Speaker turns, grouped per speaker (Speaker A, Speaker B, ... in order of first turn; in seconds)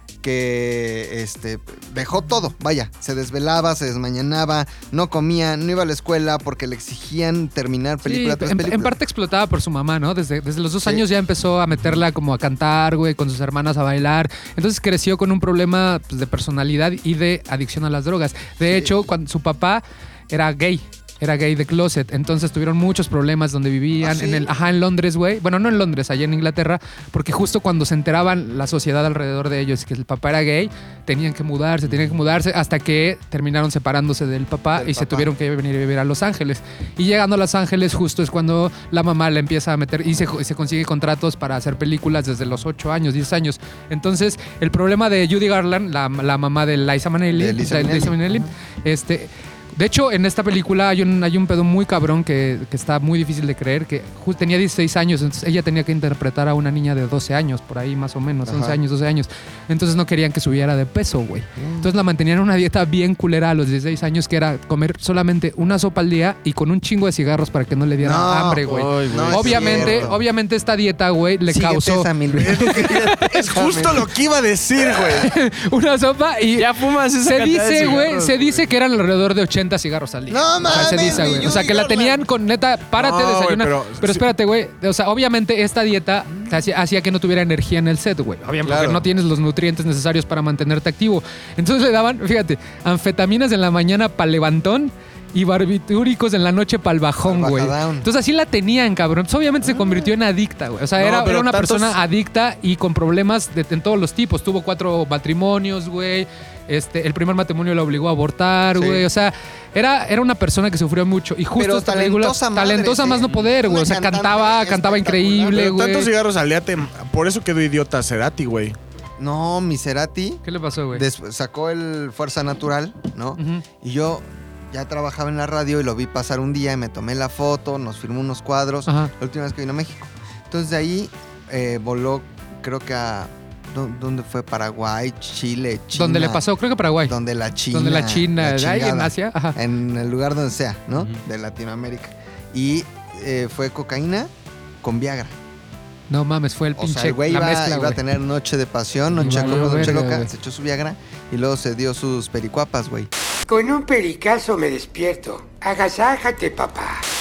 Speaker A: 0.2-8.9, 24.0-24.5, 34.8-35.3, 47.3-48.5, 58.5-58.8, 61.6-61.9, 68.0-70.2, 71.5-74.0, 80.3-82.2, 88.7-89.0, 97.2-98.1, 99.7-100.0, 108.7-109.0, 111.5-115.7, 119.2-136.4, 137.1-144.3, 144.8-145.3, 146.8-153.1
Speaker B: 8.0-72.9, 75.2-76.7, 77.2-116.1, 120.4-121.0, 123.4-123.6, 128.9-129.1, 135.9-137.1, 137.7-139.6, 146.1-148.0, 149.2-150.3
Speaker C: 68.7-70.1, 76.5-78.6, 149.3-149.8
Speaker D: 72.3-75.3, 81.4-81.8, 82.9-84.3, 101.0-102.0, 115.5-118.8
Speaker E: 153.5-157.0